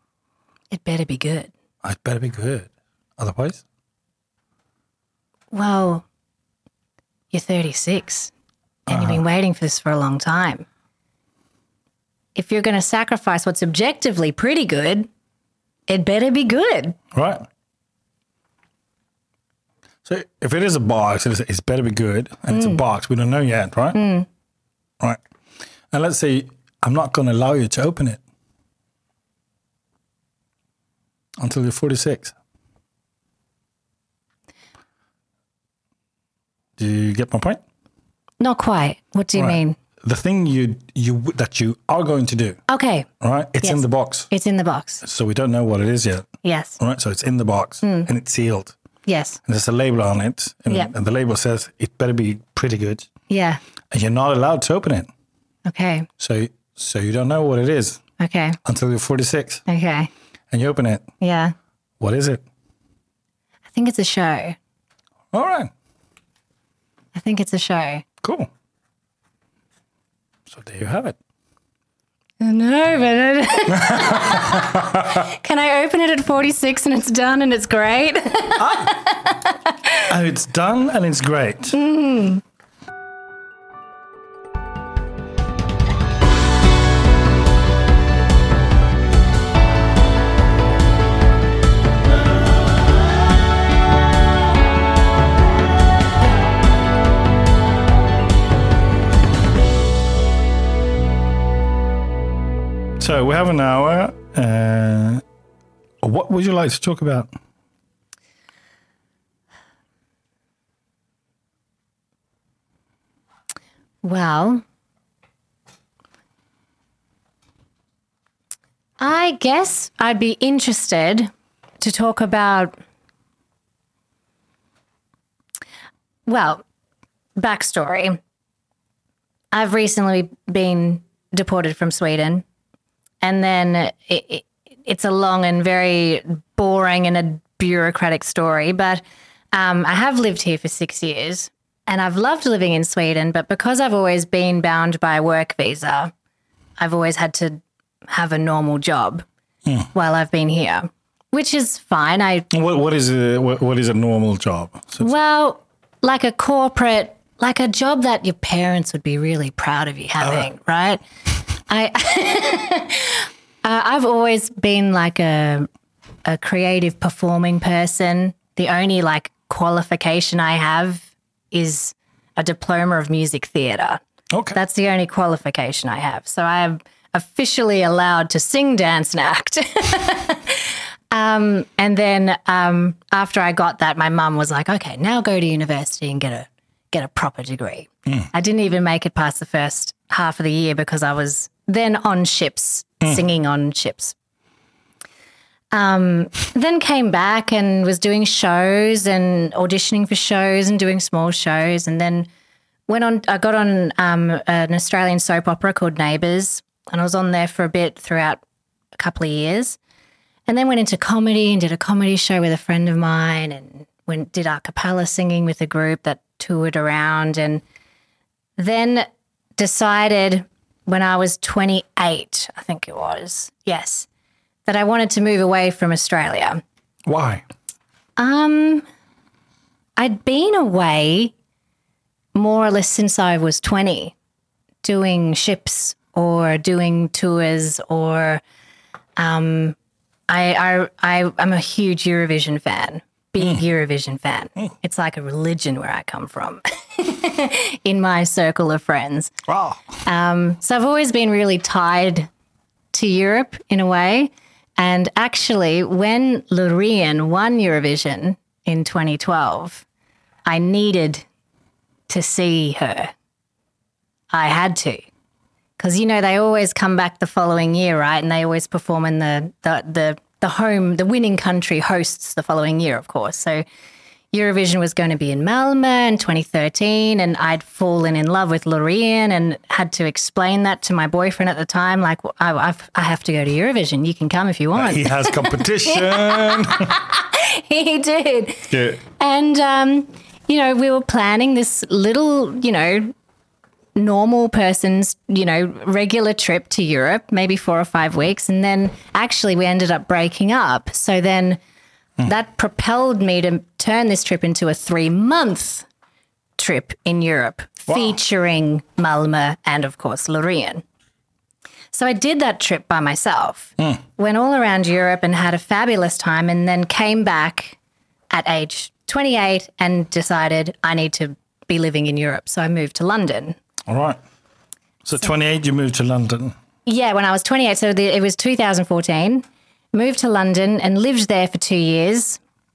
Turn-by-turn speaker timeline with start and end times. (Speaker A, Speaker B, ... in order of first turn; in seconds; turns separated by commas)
Speaker A: 0.7-1.5, Speaker B: 1.8-3.6, Speaker A: 5.5-6.0, Speaker A: 7.3-8.3, Speaker B: 8.9-9.2, Speaker A: 8.9-10.7, Speaker A: 12.3-15.1, Speaker A: 15.9-17.0, Speaker B: 17.1-17.5, Speaker B: 20.1-24.0, Speaker A: 22.5-22.8, Speaker A: 23.9-24.3, Speaker B: 25.9-28.2, Speaker B: 31.4-32.4, Speaker B: 36.8-37.6, Speaker A: 38.4-39.8, Speaker B: 39.4-42.6, Speaker A: 42.7-43.1, Speaker B: 43.2-44.3, Speaker A: 43.6-45.0, Speaker B: 45.0-46.3, Speaker A: 46.4-46.8, Speaker B: 46.8-48.8, Speaker A: 47.8-48.1, Speaker A: 49.1-49.4, Speaker B: 49.5-53.1, Speaker A: 53.3-53.6, Speaker B: 53.9-55.1, Speaker A: 55.7-56.1, Speaker B: 56.2-58.0, Speaker A: 58.2-58.6, Speaker B: 58.6-59.7, Speaker A: 59.7-60.1, Speaker B: 60.5-61.1, Speaker A: 61.2-61.5, Speaker B: 62.0-62.4, Speaker A: 63.7-64.6, Speaker B: 65.3-65.7, Speaker A: 67.1-68.0, Speaker B: 68.2-68.5, Speaker B: 70.5-71.2, Speaker A: 72.4-80.0, Speaker B: 73.7-75.3, Speaker B: 78.6-79.0, Speaker B: 80.1-81.8, Speaker A: 81.7-82.4, Speaker B: 103.0-105.2, Speaker B: 106.0-107.3, Speaker A: 114.0-114.6, Speaker A: 119.0-121.3, Speaker A: 121.8-122.8, Speaker A: 126.3-126.6, Speaker A: 127.4-128.2, Speaker A: 129.5-132.4, Speaker A: 133.2-146.1, Speaker A: 146.8-149.2, Speaker B: 149.7-149.9, Speaker A: 149.9-152.5, Speaker B: 152.5-155.1, Speaker A: 155.0-161.0, Speaker B: 160.2-160.5, Speaker A: 161.7-165.7, Speaker A: 166.2-174.0, Speaker B: 174.3-174.6, Speaker A: 174.5-194.2, Speaker A: 195.7-202.3, Speaker A: 202.9-208.4, Speaker A: 209.0-209.8, Speaker A: 210.5-217.6, Speaker A: 218.6-224.1, Speaker A: 224.7-226.6, Speaker B: 227.1-227.4, Speaker A: 228.2-228.8, Speaker A: 230.0-231.3, Speaker A: 232.3-234.1, Speaker A: 234.8-238.4, Speaker A: 239.2-239.8, Speaker A: 240.3-249.3, Speaker B: 249.5-250.0, Speaker A: 250.0-252.3, Speaker A: 252.9-259.9, Speaker A: 260.5-261.2, Speaker A: 262.1-263.1, Speaker A: 264.3-265.0, Speaker A: 265.8-273.6, Speaker A: 274.3-293.1, Speaker B: 284.7-287.0, Speaker A: 293.9-301.6, Speaker A: 302.2-305.9, Speaker A: 306.6-310.8, Speaker B: 307.9-308.1, Speaker A: 311.9-317.8, Speaker A: 318.3-323.6, Speaker B: 323.9-324.2, Speaker B: 325.0-326.6, Speaker A: 326.9-332.4